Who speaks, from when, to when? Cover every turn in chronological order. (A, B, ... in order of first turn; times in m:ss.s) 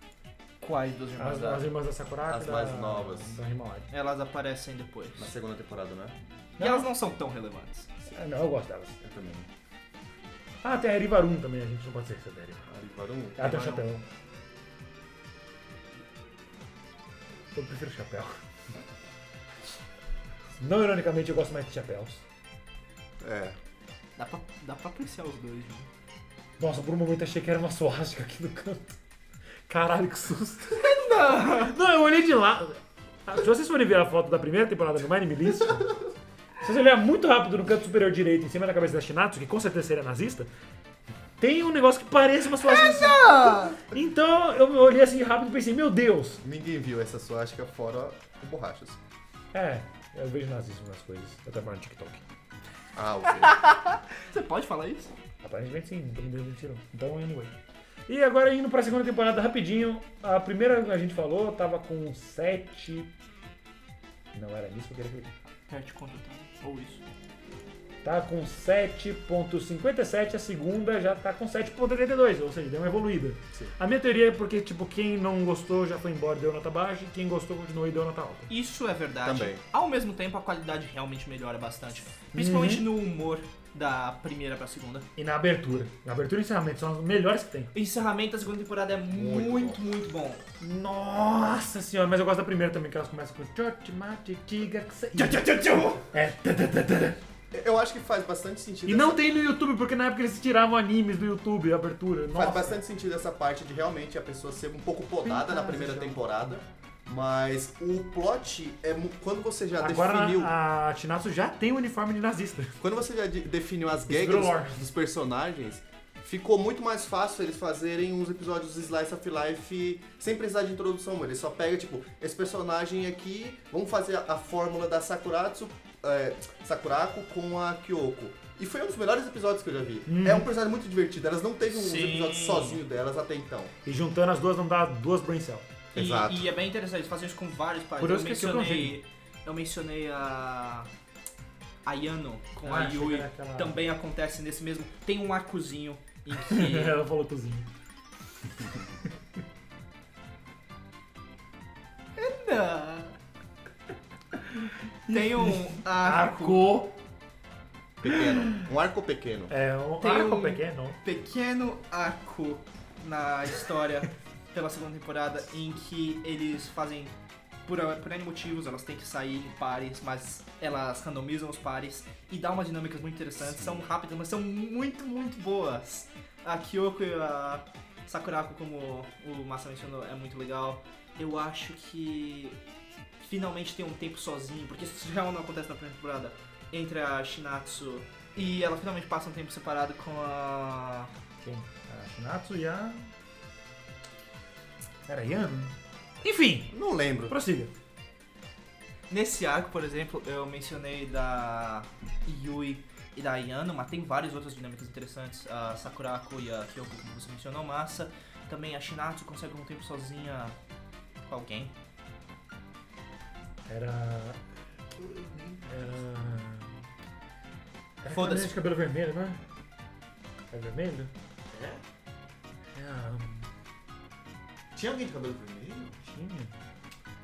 0:00.6-0:01.7 A
0:01.2-0:03.9 B
0:02.3-0:03.4 C
0:03.9-0:05.3 A
0:05.2-0:06.2 C
0:06.6-0:06.9 B
0:06.6-0:07.9 A
0:08.1-0:09.0 B
0:09.0-0:09.5 C
0:10.6-0:12.7 B
0:12.7-0:13.8 C
0:13.4-0:14.0 B
0:17.5-0:18.4 B
0:20.6-0:22.2 B
0:23.2-0:23.6 C
0:24.2-0:25.9 A
0:26.6-0:29.0 B
0:29.7-0:35.9 B
0:30.8-0:31.8 A
0:36.6-0:40.5 B
0:41.4-0:46.4 B
0:42.6-0:43.8 A
0:46.4-0:49.0 C
0:49.5-0:52.2 B
0:52.9-0:53.6 C
0:53.3-0:55.1 A
0:55.4-0:57.5 B
0:58.1-1:03.1 B
1:04.3-1:05.3 B
1:05.7-1:07.0 A
1:08.0-1:18.5 B
1:18.5-1:25.1 A
1:19.2-1:19.6 C
1:22.3-1:22.8 B
1:25.2-1:27.7 B
1:27.7-1:30.4 A
1:29.1-1:29.8 C
1:30.6-1:35.6 B
1:35.2-1:36.0 A
1:36.1-1:37.2 B
1:37.5-1:39.2 C
1:38.8-1:42.8 B
1:42.3-1:50.5 C
1:45.2-1:46.2 B
1:49.8-1:52.8 B
1:52.8-2:13.7 C
1:54.1-1:54.8 B
2:10.1-2:10.5 B
2:11.7-2:12.8 A
2:13.8-2:15.7 B
2:15.9-2:16.5 C
2:15.9-2:20.9 A
2:18.0-2:19.0 B
2:21.8-2:27.0 A
2:22.6-2:23.8 B
2:26.4-2:27.7 B
2:32.2-2:33.1 A
2:35.1-2:37.0 B
2:35.1-2:36.6 A
2:38.0-2:39.5 C
2:38.0-2:38.6 B
2:39.5-2:41.0 B
2:40.0-2:47.1 A
2:47.6-3:02.6 A
2:53.4-2:53.8 C
3:03.2-3:11.1 A
3:11.4-3:13.1 B
3:15.0-3:16.7 B
3:16.7-3:17.4 C
3:17.3-3:17.7 B
3:19.1-3:30.5 A
3:31.3-3:31.7 A
3:33.6-3:34.4 B
3:35.0-3:35.9 C
3:35.6-3:36.8 B
3:38.0-3:39.4 B
3:38.1-3:38.6 A
3:40.5-3:41.1 B
3:41.5-3:41.8 C
3:42.7-3:43.5 B
3:44.7-3:46.0 C
3:46.0-3:46.5 B